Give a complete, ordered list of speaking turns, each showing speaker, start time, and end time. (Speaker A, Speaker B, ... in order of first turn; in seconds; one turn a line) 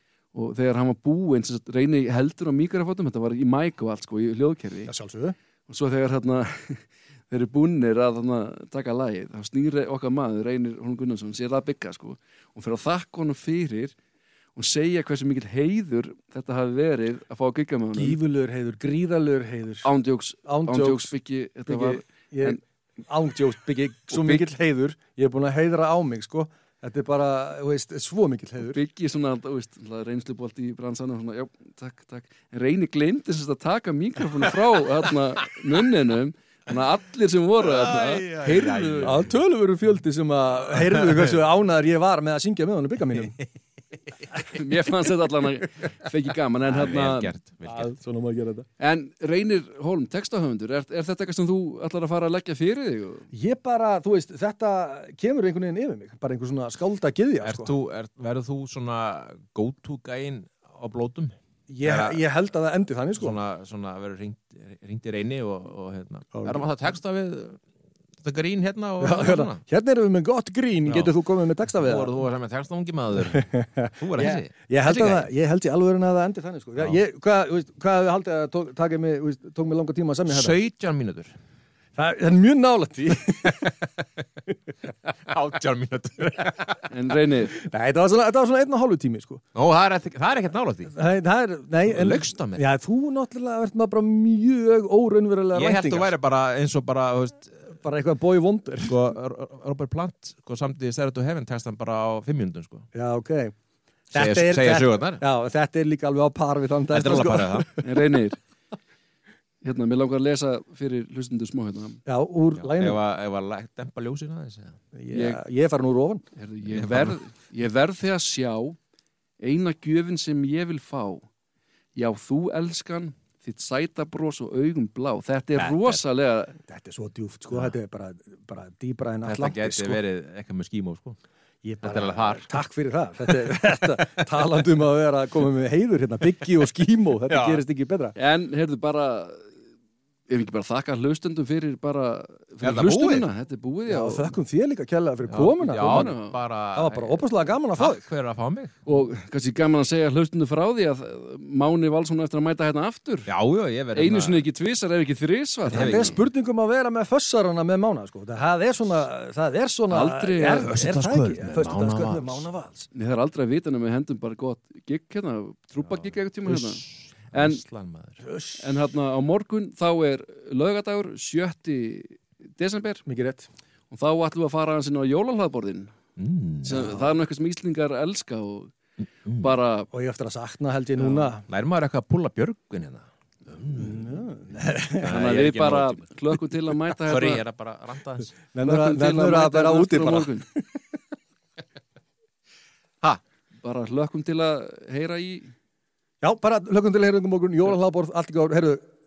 Speaker A: 0.3-4.9
Speaker B: 4.9-5.3
Speaker A: 5.7-13.9
Speaker A: 14.5-18.2
Speaker B: 17.9-19.9
Speaker A: 19.8-22.6
Speaker B: 20.4-21.1
Speaker B: 21.7-28.8
Speaker A: 24.1-24.5
Speaker A: 28.6-39.2
Speaker C: 37.6-39.3
Speaker B: 39.0-43.4
Speaker C: 40.8-41.1
Speaker A: 44.3-47.3
Speaker C: 46.6-47.9
Speaker B: 47.6-48.6
Speaker A: 48.8-53.3
Speaker B: 53.3-57.7
Speaker C: 57.4-62.2
Speaker B: 61.7-63.4
Speaker C: 63.2-67.6
Speaker B: 66.3-66.7
Speaker C: 68.2-69.6
Speaker B: 69.0-72.2
Speaker C: 70.8-75.3
Speaker B: 73.3-80.6
Speaker C: 80.3-81.3
Speaker B: 82.0-83.9
Speaker C: 85.3-86.8
Speaker A: 86.9-87.6
Speaker B: 87.6-89.4
Speaker C: 89.5-90.9
Speaker B: 90.9-96.1
Speaker C: 91.8-92.6
Speaker C: 95.5-97.7
Speaker B: 97.8-99.0
Speaker C: 98.8-102.9
Speaker B: 102.9-103.5
Speaker B: 104.1-107.8
Speaker C: 104.1-105.2
Speaker C: 106.9-107.7
Speaker A: 107.8-108.4
Speaker A: 109.6-112.0
Speaker B: 112.0-113.0
Speaker C: 112.6-114.8
Speaker B: 114.9-116.2
Speaker A: 115.1-115.4
Speaker A: 116.3-118.8
Speaker C: 116.6-117.2
Speaker A: 119.4-121.3
Speaker A: 121.9-126.6
Speaker C: 125.6-126.0
Speaker B: 126.7-130.0
Speaker C: 129.2-131.2
Speaker B: 131.6-138.2
Speaker C: 131.8-132.5
Speaker C: 137.3-137.6
Speaker A: 138.2-139.5
Speaker A: 140.3-144.3
Speaker C: 142.6-143.3
Speaker B: 143.9-146.2
Speaker C: 145.3-148.8
Speaker A: 145.8-146.4
Speaker B: 146.7-148.0
Speaker A: 148.8-153.3
Speaker C: 153.3-154.4
Speaker A: 153.9-156.2
Speaker B: 155.7-162.9
Speaker C: 155.7-156.2
Speaker A: 159.9-160.8
Speaker C: 160.7-162.4
Speaker A: 162.9-167.6
Speaker C: 165.9-168.2
Speaker B: 168.3-168.7
Speaker A: 168.6-173.0
Speaker B: 173.1-173.5
Speaker A: 173.9-175.9
Speaker C: 176.2-176.9
Speaker A: 176.6-178.7
Speaker B: 176.7-177.1
Speaker C: 179.2-179.5
Speaker A: 179.4-179.9
Speaker B: 179.9-181.4
Speaker C: 181.0-184.2
Speaker B: 183.7-185.2
Speaker C: 185.0-186.1
Speaker A: 185.0-187.4
Speaker C: 187.1-188.3
Speaker B: 188.5-190.8
Speaker A: 188.6-190.5
Speaker A: 193.6-195.5
Speaker B: 196.2-198.8